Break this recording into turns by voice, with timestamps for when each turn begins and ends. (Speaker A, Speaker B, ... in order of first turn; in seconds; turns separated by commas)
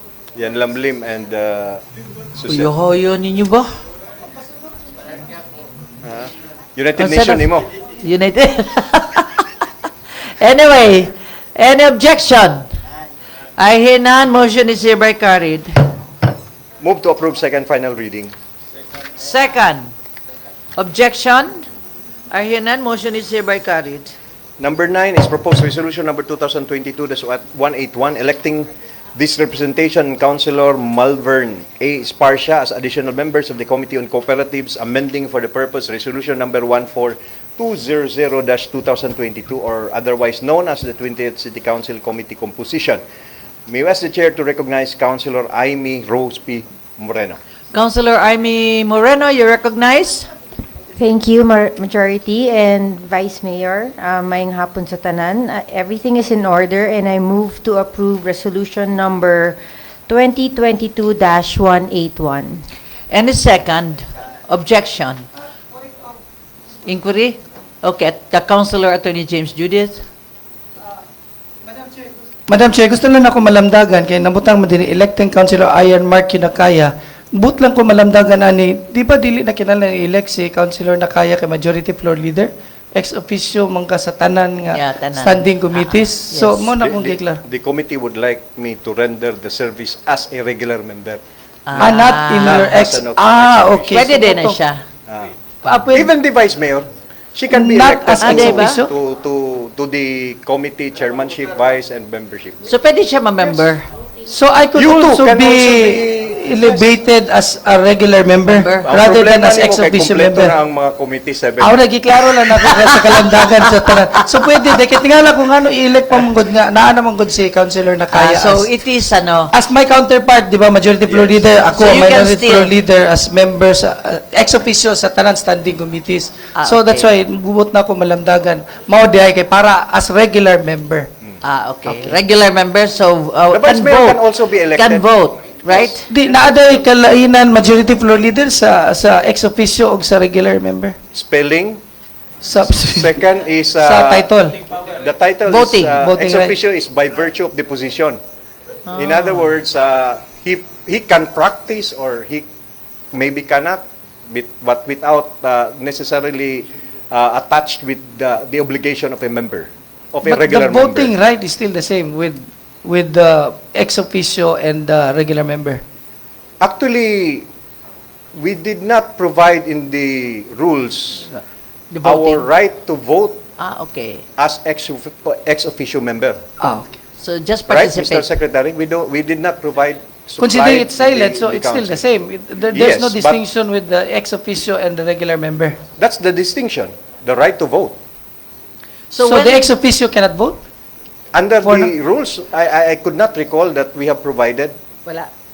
Speaker A: 0.3-1.8, Speaker A: 2.3-2.7, Speaker B: 2.5-3.7, Speaker A: 6.0-7.7, Speaker B: 7.0-9.6, Speaker B: 10.2-12.7, Speaker B: 13.6-15.7, Speaker A: 16.8-18.3, Speaker B: 19.2-19.9, Speaker B: 20.8-21.7, Speaker B: 22.3-24.1, Speaker A: 24.6-43.0, Speaker A: 43.7-47.4, Speaker B: 47.7-50.3, Speaker C: 51.0-62.6, Speaker B: 63.1-65.2, Speaker B: 66.8-70.0, Speaker D: 72.5-87.4, Speaker B: 84.7-86.7, Speaker A: 86.8-91.2, Speaker B: 91.7-92.7, Speaker A: 91.8-94.0, Speaker D: 91.8-94.6, Speaker B: 93.9-94.8, Speaker A: 95.1-95.3, Speaker D: 95.6-96.1, Speaker A: 95.9-102.6, Speaker D: 97.5-98.9, Speaker B: 98.2-98.8, Speaker B: 102.7-103.9, Speaker D: 104.3-110.5, Speaker A: 104.7-106.8, Speaker B: 108.5-108.9, Speaker A: 108.8-111.8, Speaker D: 111.6-118.7, Speaker B: 112.5-113.7, Speaker B: 118.1-119.5, Speaker D: 119.5-131.1, Speaker A: 121.1-122.1, Speaker B: 121.7-122.7, Speaker B: 126.5-127.1, Speaker B: 131.4-134.2, Speaker A: 133.5-135.1, Speaker B: 134.7-136.1, Speaker D: 136.1-140.9, Speaker A: 141.1-141.8, Speaker D: 142.4-143.2, Speaker A: 142.7-144.3, Speaker D: 143.8-144.6, Speaker A: 144.8-148.2, Speaker B: 145.5-146.0, Speaker D: 145.9-146.6, Speaker B: 148.9-149.5, Speaker A: 148.9-152.4, Speaker A: 153.1-161.1, Speaker D: 160.2-165.8, Speaker A: 166.6-167.5, Speaker A: 168.3-171.3, Speaker D: 171.9-172.4, Speaker A: 172.0-173.4, Speaker B: 173.6-174.2, Speaker A: 174.4-176.4, Speaker D: 176.6-176.9, Speaker B: 177.2-178.3, Speaker A: 177.7-182.0, Speaker D: 180.4-185.8, Speaker A: 182.7-183.4, Speaker A: 186.0-188.0, Speaker B: 189.1-189.7, Speaker D: 189.2-190.6, Speaker A: 191.3-194.7, Speaker D: 191.6-191.9